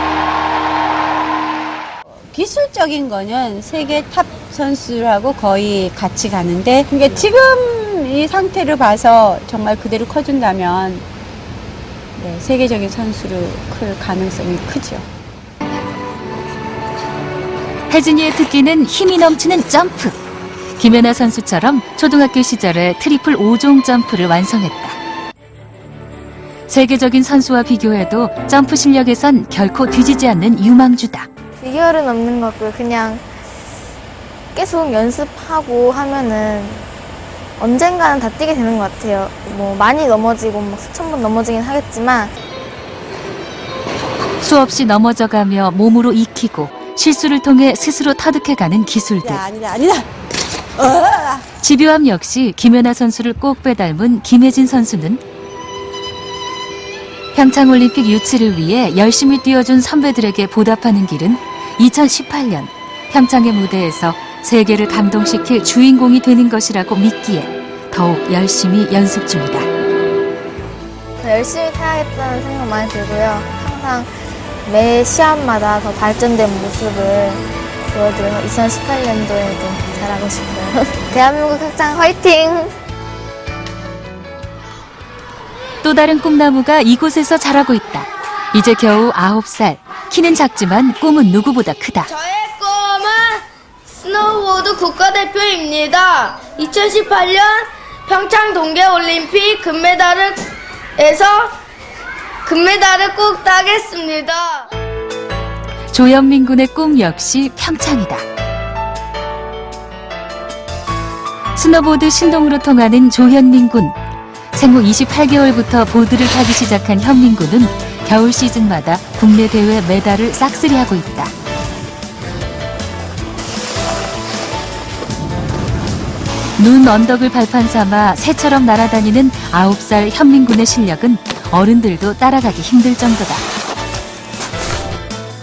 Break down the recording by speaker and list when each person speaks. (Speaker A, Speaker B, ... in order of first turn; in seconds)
Speaker A: 2.1-11.0, 12.2-15.1, 49.2-50.1, 50.8-51.4
Speaker B: 17.9-20.2, 20.8-25.0, 26.7-31.3, 44.4-49.5, 51.6-55.2, 57.3-69.7, 85.8-92.1, 105.9-108.2, 111.5-114.0, 114.5-121.3, 126.6-133.4
Speaker C: 31.6-33.2, 34.5-36.9, 37.6-42.3, 71.2-74.1, 74.6-82.7
Speaker D: 92.1-100.4, 101.0-101.6, 102.5-104.7